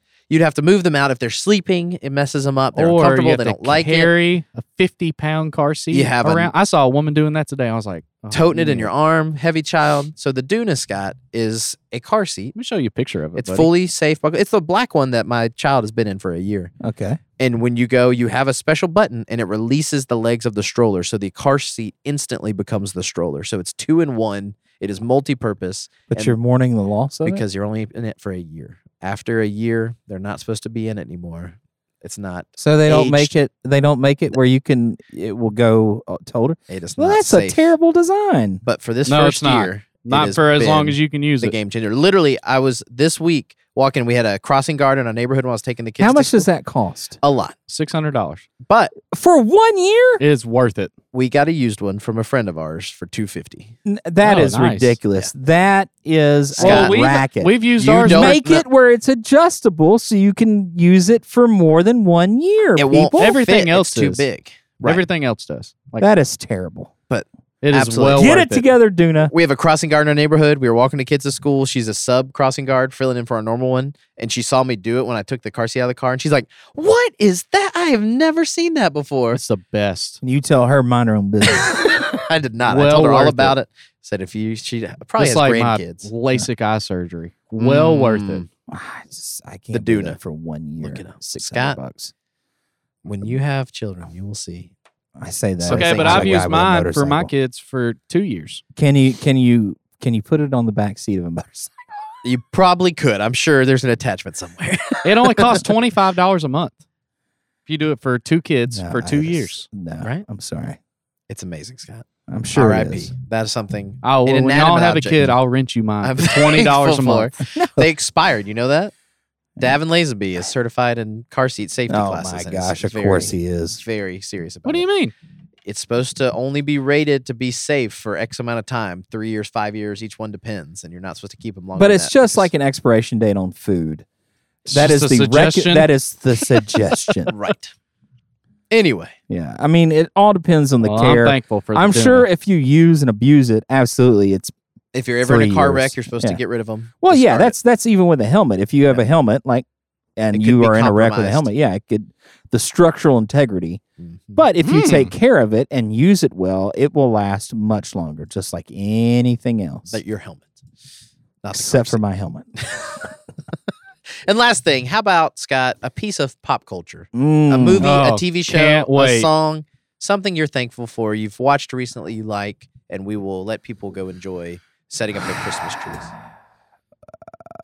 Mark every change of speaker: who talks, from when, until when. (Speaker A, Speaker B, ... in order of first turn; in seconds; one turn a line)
Speaker A: 0.3-4.1
Speaker B: 2.7-8.9
Speaker A: 5.9-6.5
Speaker A: 8.3-12.5
Speaker B: 12.5-13.7
Speaker A: 13.3-16.7
Speaker C: 16.8-17.2
Speaker A: 17.4-26.4
Speaker C: 26.1-27.4
Speaker A: 27.2-33.3
Speaker C: 32.6-38.6
Speaker A: 36.7-37.6
Speaker A: 38.6-46.5
Speaker B: 39.0-41.5
Speaker C: 46.0-47.2
Speaker A: 47.2-47.5
Speaker B: 47.7-48.5
Speaker A: 48.6-48.9
Speaker C: 49.1-50.2
Speaker B: 50.2-50.9
Speaker A: 51.1-53.7
Speaker C: 53.8-63.3
Speaker B: 54.2-55.0
Speaker A: 56.6-57.0
Speaker B: 56.6-58.4
Speaker A: 57.8-58.6
Speaker A: 62.8-65.0
Speaker B: 63.2-64.2
Speaker B: 64.8-66.0
Speaker C: 66.0-66.9
Speaker A: 67.1-68.3
Speaker B: 67.6-68.7
Speaker C: 68.1-69.3
Speaker A: 69.3-79.4
Speaker B: 79.3-80.2
Speaker C: 80.2-81.8
Speaker A: 81.5-86.1
Speaker B: 82.7-83.5
Speaker B: 85.2-88.5
Speaker A: 87.6-88.5
Speaker C: 88.7-92.1
Speaker A: 89.7-90.2
Speaker A: 90.8-91.8
Speaker A: 93.0-94.7
Speaker C: 95.2-97.3
Speaker A: 95.6-96.4
Speaker B: 95.7-98.6
Speaker C: 98.8-101.7
Speaker A: 102.2-105.6
Speaker B: 105.0-106.8
Speaker B: 107.7-109.7
Speaker C: 108.7-110.8
Speaker A: 111.3-115.3
Speaker C: 112.3-113.1
Speaker B: 114.0-117.3
Speaker A: 116.0-118.9
Speaker C: 117.5-117.9
Speaker A: 119.6-124.8
Speaker C: 121.9-123.8
Speaker B: 124.6-125.1
Speaker A: 125.7-132.5
Speaker C: 131.8-134.0
Speaker C: 134.7-137.3
Speaker B: 134.7-135.9
Speaker A: 137.3-137.7
Speaker A: 138.7-139.1
Speaker C: 139.3-144.5
Speaker B: 140.8-142.3
Speaker A: 144.9-147.5
Speaker C: 145.2-146.4
Speaker C: 147.0-149.6
Speaker C: 150.2-153.8
Speaker A: 150.3-151.5
Speaker A: 154.0-154.4
Speaker C: 154.3-160.0
Speaker B: 154.6-155.1
Speaker A: 159.9-160.6
Speaker A: 161.4-162.0
Speaker C: 161.5-162.5
Speaker A: 162.6-163.0
Speaker A: 164.2-176.1
Speaker C: 167.1-167.9
Speaker B: 167.8-169.3